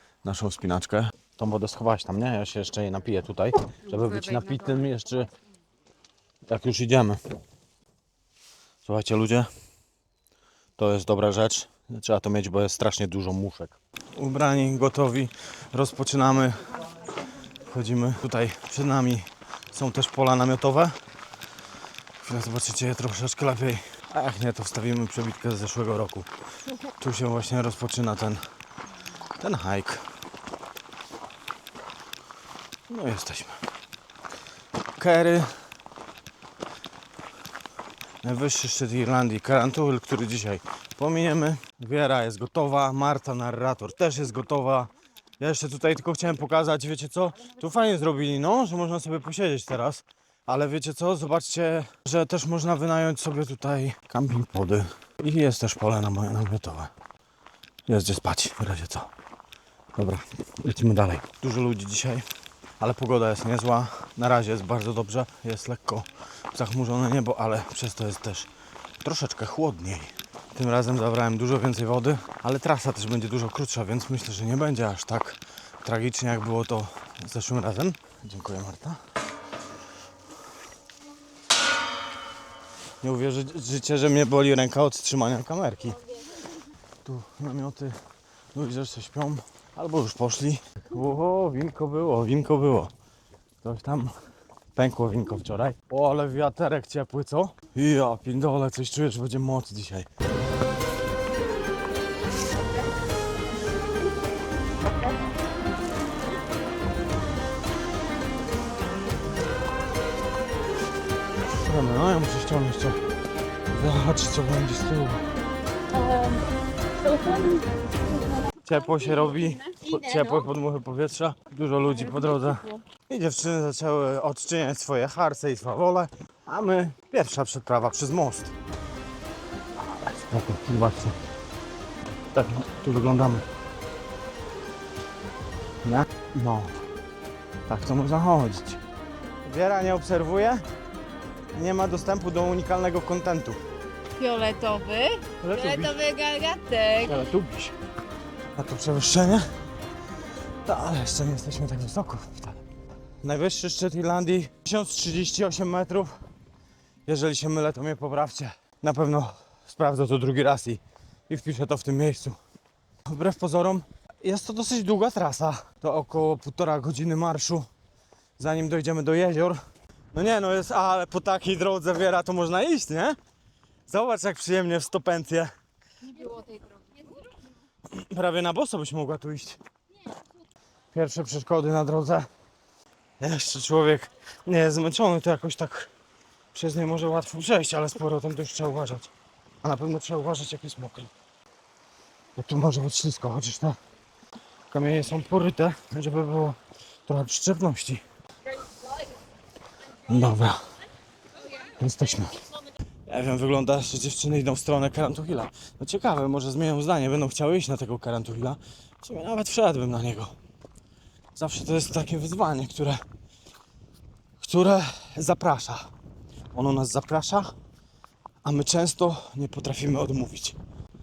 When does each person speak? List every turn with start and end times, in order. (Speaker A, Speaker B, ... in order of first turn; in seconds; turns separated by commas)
Speaker A: 0.2-5.3, Speaker B: 3.9-4.8, Speaker A: 6.5-7.2, Speaker A: 8.8-9.5, Speaker A: 10.8-16.7, Speaker A: 17.6-20.9, Speaker A: 22.2-26.3, Speaker A: 26.9-28.4, Speaker A: 29.4-30.0, Speaker A: 32.9-33.6, Speaker A: 35.0-35.5, Speaker A: 38.2-56.9, Speaker A: 57.9-59.1, Speaker A: 59.9-62.2, Speaker A: 62.8-68.5, Speaker A: 69.0-79.0, Speaker A: 83.0-86.0, Speaker A: 87.0-88.0, Speaker A: 88.5-92.9, Speaker A: 93.6-94.1, Speaker A: 94.8-100.1, Speaker A: 111.5-113.0, Speaker A: 113.7-115.2, Speaker B: 116.0-116.4, Speaker B: 117.1-117.6, Speaker A: 118.6-128.5, Speaker A: 129.8-131.2, Speaker A: 132.3-133.4, Speaker A: 135.8-136.7, Speaker A: 137.7-138.8, Speaker A: 139.4-140.6, Speaker A: 141.5-143.6, Speaker B: 144.2-147.1, Speaker A: 145.4-146.0, Speaker A: 147.0-147.7, Speaker A: 148.5-149.4, Speaker A: 150.6-152.6, Speaker A: 153.2-156.1, Speaker A: 157.1-162.4, Speaker A: 163.1-167.7, Speaker A: 168.4-169.6, Speaker A: 170.1-173.2, Speaker A: 173.9-175.5, Speaker B: 176.2-176.5, Speaker A: 177.9-179.6, Speaker A: 180.9-182.3, Speaker A: 183.2-185.9, Speaker A: 186.5-189.1, Speaker A: 189.6-191.1, Speaker A: 192.3-193.8, Speaker A: 194.7-198.0, Speaker A: 200.1-200.6, Speaker A: 201.8-202.4, Speaker A: 203.1-210.3, Speaker A: 211.3-213.0, Speaker A: 214.4-215.9, Speaker A: 216.5-217.5, Speaker A: 218.4-220.6